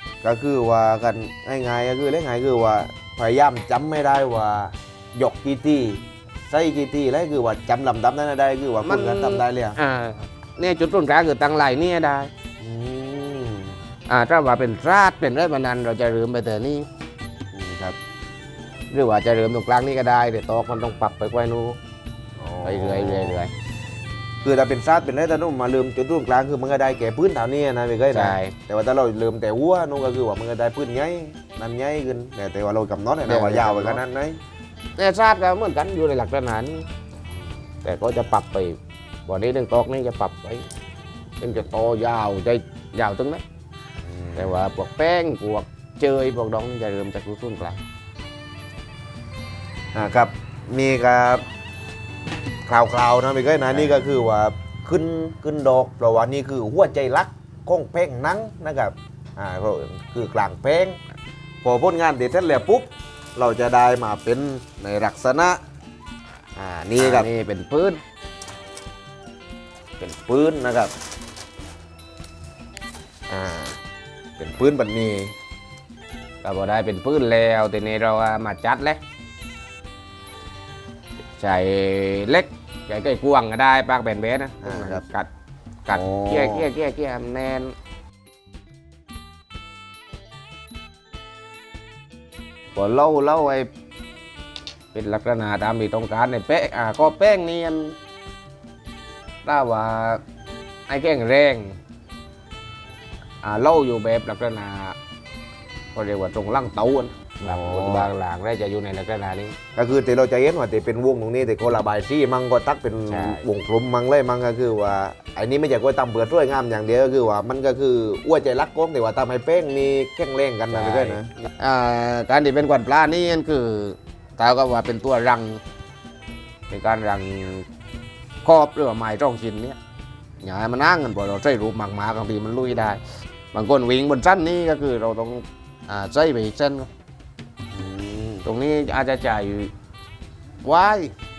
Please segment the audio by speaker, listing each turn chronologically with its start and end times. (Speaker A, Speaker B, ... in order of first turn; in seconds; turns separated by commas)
Speaker A: 0.2-9.8, Speaker B: 8.8-12.3, Speaker A: 12.6-13.8, Speaker B: 14.1-16.9, Speaker A: 17.5-18.0, Speaker B: 18.9-21.8, Speaker A: 22.4-23.4, Speaker B: 22.6-23.5, Speaker A: 24.4-34.4, Speaker B: 28.1-28.6, Speaker B: 33.2-34.0, Speaker B: 35.0-36.9, Speaker B: 37.8-40.6, Speaker B: 41.4-43.4, Speaker A: 44.0-44.6, Speaker B: 44.4-47.8, Speaker A: 49.9-51.5, Speaker A: 52.7-61.0, Speaker A: 61.6-65.6, Speaker A: 66.5-67.3, Speaker B: 67.0-68.0, Speaker A: 70.0-70.9, Speaker A: 73.3-73.8, Speaker A: 74.4-75.3, Speaker B: 76.4-79.0, Speaker B: 81.4-85.3, Speaker A: 84.6-85.0, Speaker B: 85.8-87.7, Speaker A: 85.9-86.7, Speaker B: 92.7-93.7, Speaker B: 94.9-98.0, Speaker B: 99.4-100.2, Speaker B: 100.9-101.8, Speaker B: 103.4-105.0, Speaker B: 105.9-109.6, Speaker A: 107.4-108.1, Speaker A: 109.8-121.3, Speaker B: 113.1-113.4, Speaker B: 120.7-125.6, Speaker B: 126.7-127.6, Speaker B: 128.4-129.8, Speaker B: 130.4-133.0, Speaker B: 133.5-136.9, Speaker A: 137.7-138.4, Speaker B: 138.4-139.7, Speaker B: 140.6-141.1